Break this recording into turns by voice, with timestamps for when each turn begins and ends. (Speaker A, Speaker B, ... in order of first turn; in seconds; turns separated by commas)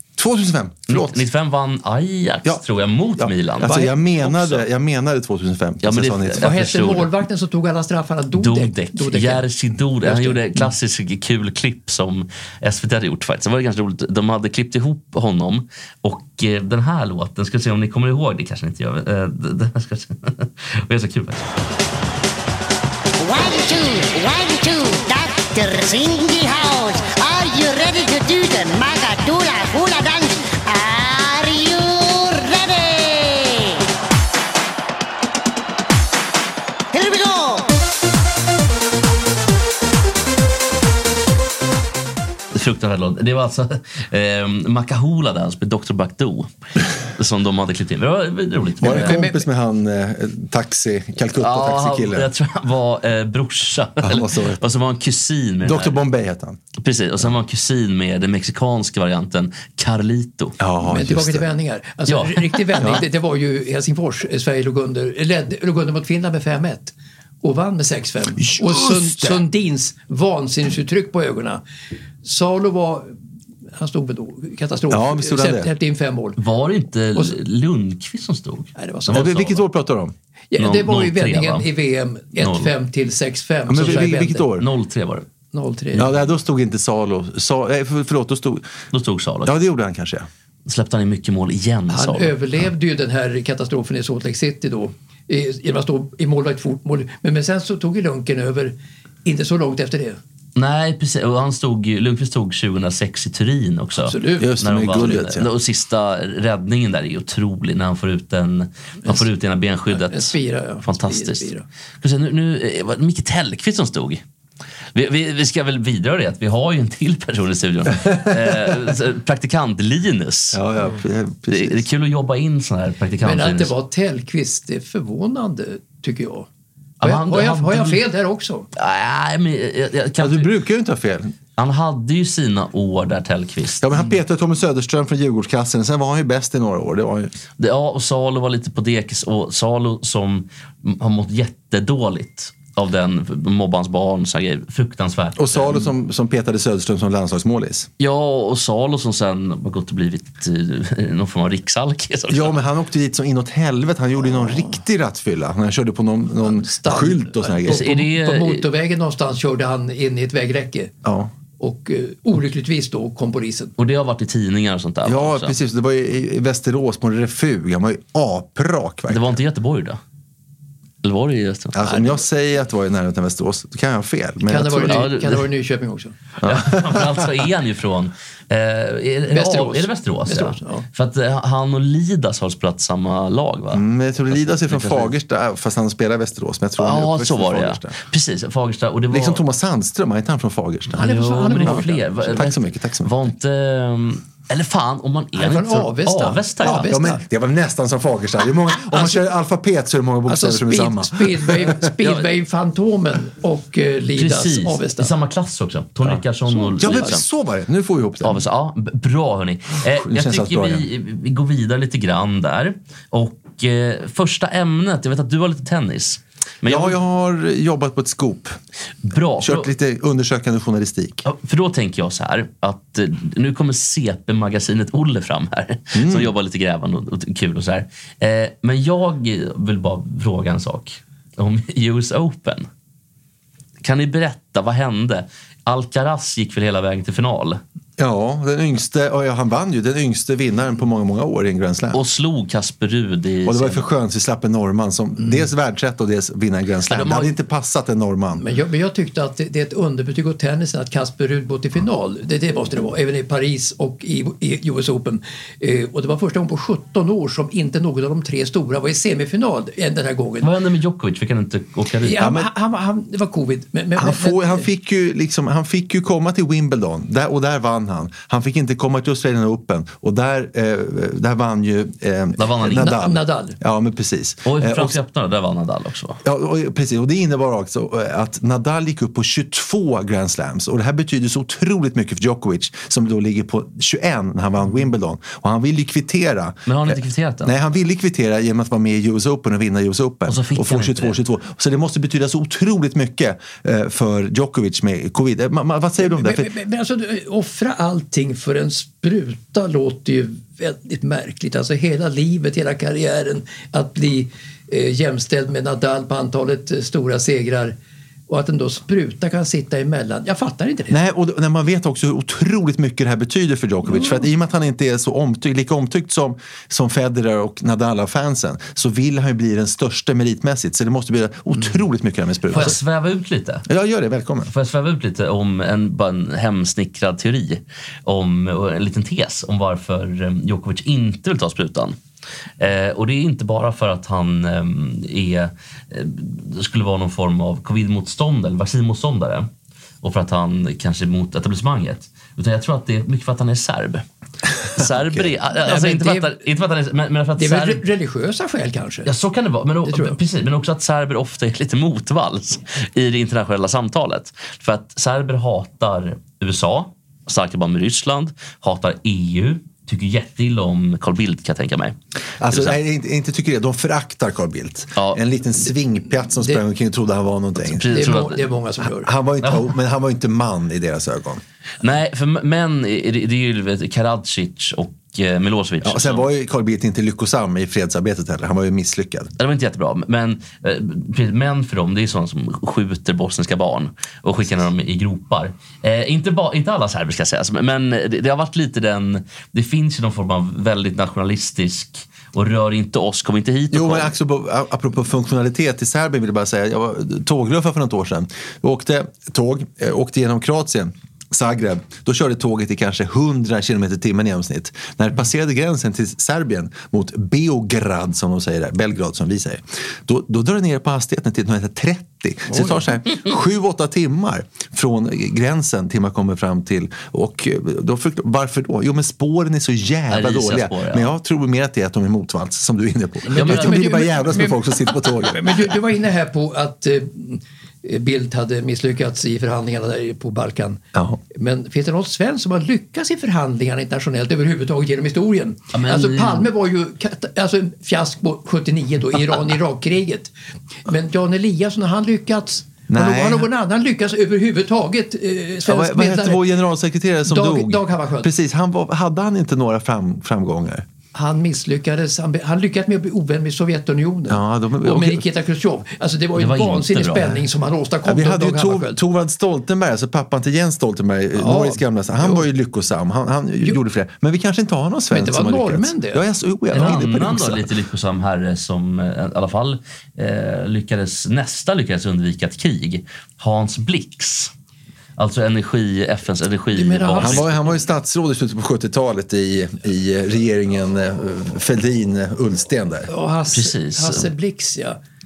Speaker A: 0.2-1.2, Speaker B: 0.9-4.7, Speaker A: 3.2-6.6, Speaker B: 5.8-7.1, Speaker C: 6.4-9.5, Speaker B: 8.4-21.5, Speaker C: 10.0-10.7, Speaker D: 23.2-33.9, Speaker D: 36.9-37.7, Speaker B: 42.5-46.5, Speaker B: 47.1-49.2, Speaker A: 48.8-52.3, Speaker C: 48.8-49.4, Speaker B: 51.4-56.0, Speaker A: 54.0-54.6, Speaker A: 55.6-56.6, Speaker B: 56.8-60.6, Speaker A: 60.6-61.5, Speaker C: 60.9-71.6, Speaker B: 62.1-63.0, Speaker A: 62.8-63.0, Speaker A: 68.4-69.5, Speaker C: 72.2-73.1, Speaker C: 73.8-76.4, Speaker A: 74.9-75.7, Speaker B: 76.4-79.4, Speaker C: 78.8-79.6, Speaker A: 79.1-80.1, Speaker C: 80.5-84.5, Speaker B: 80.6-81.7, Speaker B: 82.4-82.7, Speaker A: 83.7-84.7, Speaker B: 83.8-85.3, Speaker C: 85.5-86.1, Speaker A: 86.0-88.7, Speaker B: 88.9-89.5, Speaker A: 89.5-90.3, Speaker B: 90.7-92.3, Speaker C: 91.9-100.2, Speaker B: 100.6-111.5, Speaker C: 104.0-104.5, Speaker A: 104.4-105.5, Speaker C: 109.9-111.6, Speaker B: 112.0-114.2, Speaker B: 115.0-120.6, Speaker A: 117.9-118.9, Speaker A: 120.5-121.9, Speaker B: 121.5-123.7, Speaker C: 123.2-126.5, Speaker B: 127.0-128.0, Speaker C: 127.0-128.7, Speaker B: 128.8-130.5, Speaker A: 130.2-131.3, Speaker B: 131.6-133.8, Speaker A: 133.8-137.3, Speaker B: 137.6-145.8, Speaker A: 145.4-147.9, Speaker B: 148.0-152.6, Speaker A: 152.3-157.9, Speaker C: 154.3-154.8, Speaker C: 156.4-160.9, Speaker B: 157.7-158.7, Speaker A: 161.0-161.3, Speaker C: 161.6-163.7, Speaker B: 163.8-165.6, Speaker A: 165.1-169.3, Speaker B: 169.1-170.0, Speaker B: 171.0-171.8, Speaker A: 171.7-175.0, Speaker C: 171.8-172.2, Speaker C: 174.5-176.2, Speaker B: 174.8-175.5, Speaker A: 176.4-177.3, Speaker B: 176.4-185.1, Speaker C: 179.3-180.8, Speaker A: 183.7-187.9, Speaker B: 186.8-189.4, Speaker A: 189.1-193.1, Speaker C: 191.0-192.4, Speaker B: 191.0-196.9, Speaker C: 195.4-197.2, Speaker A: 196.6-201.8, Speaker C: 198.9-199.2, Speaker C: 200.3-205.1, Speaker B: 202.0-202.3, Speaker B: 204.2-207.2, Speaker C: 206.5-207.2, Speaker A: 206.8-208.4, Speaker B: 208.2-217.0, Speaker A: 209.9-210.9, Speaker A: 216.7-218.6, Speaker B: 219.1-219.7, Speaker A: 219.4-221.2, Speaker B: 221.2-232.7, Speaker A: 225.9-226.3, Speaker B: 233.8-237.6, Speaker A: 238.0-242.0, Speaker B: 241.9-243.9, Speaker A: 243.4-248.4, Speaker B: 246.9-247.3, Speaker C: 248.4-260.5, Speaker B: 260.4-262.2, Speaker C: 262.0-264.7, Speaker A: 262.2-262.5, Speaker A: 263.9-275.0, Speaker B: 272.4-273.0, Speaker C: 272.8-273.6, Speaker B: 274.5-276.2, Speaker A: 276.2-296.5, Speaker B: 286.7-287.5, Speaker B: 290.3-291.2, Speaker C: 296.0-307.8, Speaker C: 308.3-311.0, Speaker A: 310.9-322.8, Speaker C: 313.9-314.2, Speaker B: 322.5-323.6, Speaker A: 323.7-324.5, Speaker B: 324.5-332.0, Speaker B: 332.6-339.5, Speaker B: 340.0-344.1, Speaker B: 344.7-347.8, Speaker A: 344.8-345.3, Speaker C: 345.6-346.3, Speaker C: 347.4-349.1, Speaker B: 349.1-362.0, Speaker C: 349.8-350.2, Speaker A: 362.4-367.9, Speaker B: 362.5-362.8, Speaker C: 366.3-366.6, Speaker B: 367.6-368.5, Speaker C: 367.9-369.1, Speaker A: 369.0-371.4, Speaker B: 371.8-376.3, Speaker A: 375.8-379.3, Speaker B: 379.4-394.1, Speaker A: 393.7-425.7, Speaker C: 412.5-412.9, Speaker B: 420.1-421.1, Speaker B: 423.3-424.0, Speaker C: 423.3-430.8, Speaker A: 430.9-431.2, Speaker C: 431.3-440.3, Speaker B: 435.7-436.5, Speaker C: 440.9-446.4, Speaker A: 442.9-443.5, Speaker A: 445.6-450.9, Speaker C: 447.3-448.3, Speaker C: 451.1-459.0, Speaker A: 454.3-455.2, Speaker B: 456.4-457.4, Speaker A: 458.1-467.7, Speaker C: 461.4-462.5, Speaker C: 465.1-466.2, Speaker B: 466.7-474.5, Speaker B: 475.2-477.5, Speaker C: 476.7-477.6, Speaker A: 477.2-483.1, Speaker C: 483.1-485.0, Speaker B: 483.5-484.3